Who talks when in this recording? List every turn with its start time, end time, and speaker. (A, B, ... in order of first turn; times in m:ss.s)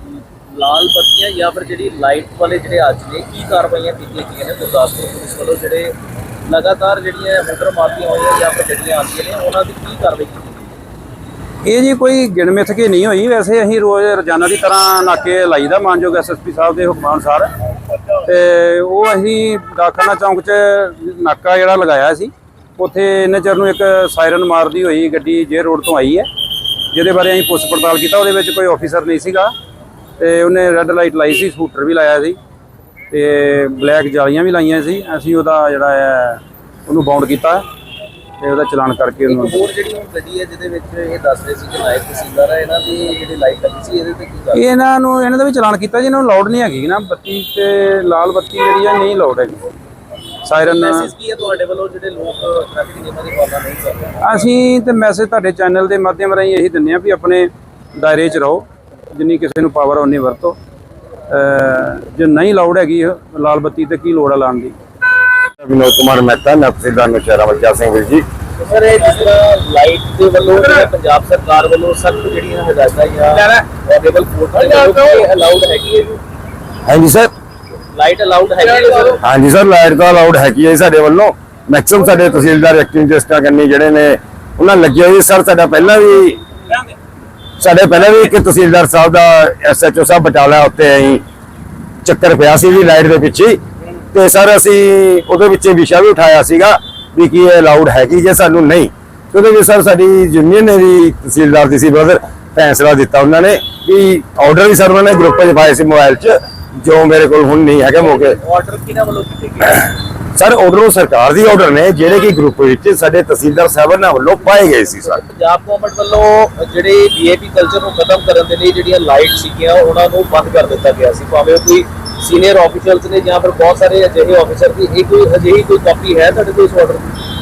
0:00.5-0:06.0 A
0:06.5-0:10.7 A
0:11.6-0:17.5 B
0:18.2-0:26.3 B
0:26.9-0:29.5 B
0:30.2-0:32.4 B
0:33.1-0:37.6 B
0:38.4-0:39.6 B
0:39.2-0:44.6 A
0:44.5-0:49.7 B
0:50.5-0:51.1 B
0:50.6-0:54.2 A
0:54.2-1:00.6 B
1:01.3-1:04.8 B
1:05.6-1:08.3 C
1:08.6-1:16.2 A
1:16.9-1:17.3 C
1:17.9-1:19.2 A
1:19.2-1:26.4 C
1:27.6-1:31.2 C
1:32.0-1:33.6 C
1:34.1-1:48.4 C
1:48.0-1:49.9 A
1:50.3-1:55.2 C
1:54.7-2:07.1 A